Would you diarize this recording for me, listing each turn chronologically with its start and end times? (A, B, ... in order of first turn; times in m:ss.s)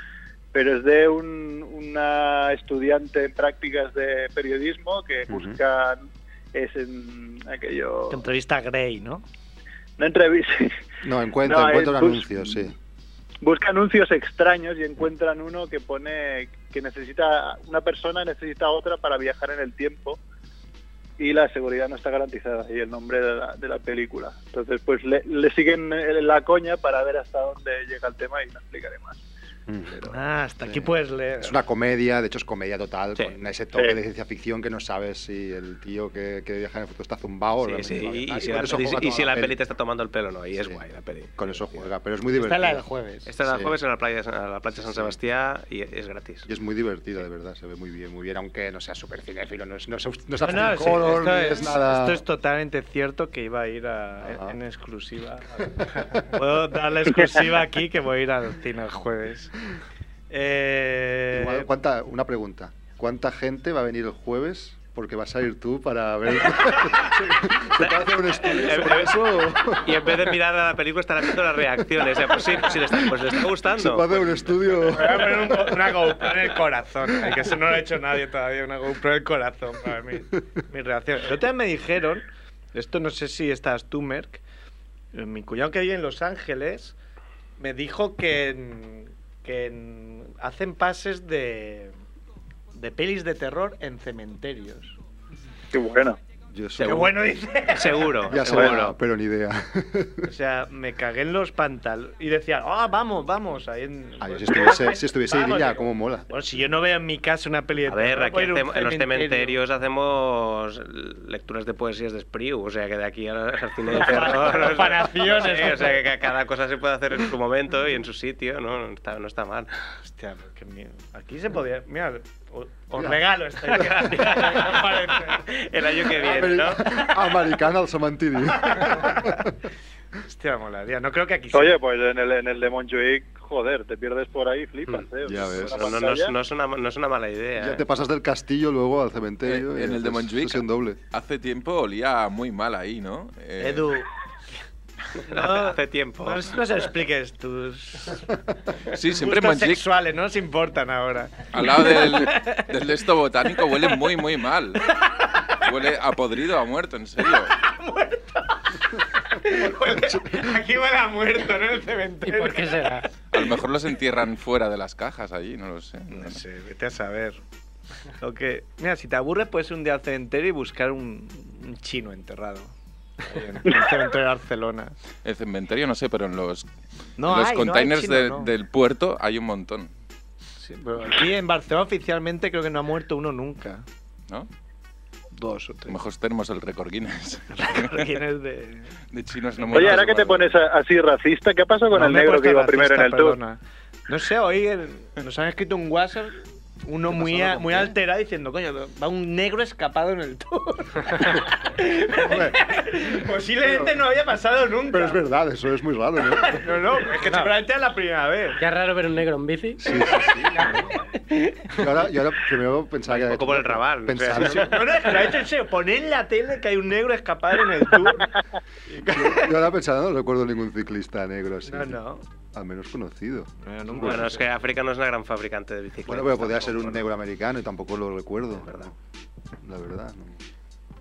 0:00.5-0:06.0 A
0:05.3-0:05.6 B
0:06.5-0:08.2 A
0:08.1-0:09.2 C
0:10.0-0:10.7 A
0:11.0-0:12.7 B
0:11.4-0:12.6 A
0:13.4-0:20.2 A
0:21.2-0:29.2 A
0:29.7-0:30.1 B
0:30.1-0:31.6 C
0:30.6-0:39.6 B
0:37.6-0:41.9 D
0:40.6-0:40.8 B
0:41.4-0:42.8 B
0:42.3-0:43.3 C
0:43.3-0:46.5 D
0:43.4-0:43.7 B
0:44.7-0:45.2 B
0:46.4-0:52.2 B
0:50.4-0:59.5 C
0:54.2-0:54.6 B
1:00.3-1:01.6 C
1:01.3-1:10.3 B
1:07.8-1:14.8 D
1:12.0-1:16.1 B
1:14.9-1:24.4 C
1:25.1-1:26.9 C
1:27.6-1:31.9 C
1:32.7-1:34.9 C
1:35.7-1:36.2 A
1:36.5-1:37.2 B
1:36.8-1:38.4 C
1:37.7-1:38.9 D
1:38.2-1:40.3 B
1:40.2-1:49.6 C
1:44.2-1:46.3 B
1:47.9-1:59.7 D
1:53.9-1:56.0 C
2:00.0-2:05.6 C
2:03.7-2:06.9 D
2:06.2-2:09.5 B
2:08.7-2:09.3 C
2:10.2-2:11.8 C
2:11.5-2:16.3 A
2:15.2-2:15.9 B
2:15.6-2:17.8 D
2:17.6-2:21.0 B
2:19.4-2:23.9 E
2:23.6-2:24.1 C
2:25.3-2:28.3 C
2:25.3-2:26.6 D
2:28.9-2:29.8 E
2:29.1-2:32.7 C
2:31.5-2:34.9 E
2:35.0-2:35.6 C
2:35.5-2:37.5 E
2:37.5-2:42.9 C
2:40.1-2:40.4 B
2:42.2-2:43.1 F
2:43.3-2:46.4 E
2:46.1-2:47.4 C
2:48.2-2:54.9 C
2:55.2-2:56.6 E
2:57.2-2:58.5 C
2:57.2-2:59.9 E
3:00.6-3:03.8 C
3:05.4-3:06.0 C
3:05.9-3:08.1 E
3:07.5-3:08.9 C
3:09.1-3:10.5 E
3:09.6-3:10.0 C
3:09.7-3:13.4 A
3:11.9-3:25.2 C
3:17.3-3:17.9 B
3:22.2-3:22.6 B
3:23.6-3:23.9 B
3:24.9-3:26.9 B
3:26.4-3:28.6 C
3:27.3-3:27.5 F
3:28.6-3:30.4 F
3:29.8-3:30.9 B
3:31.2-3:31.6 C
3:31.7-3:34.8 B
3:33.1-3:34.8 D
3:34.4-3:38.3 C
3:38.9-3:39.5 C
3:39.0-3:42.0 B
3:41.6-3:42.2 C
3:42.5-3:44.3 B
3:43.6-3:44.5 C
3:44.0-3:47.0 D
3:46.0-3:48.9 B
3:48.6-3:48.9 D
3:49.6-3:50.4 B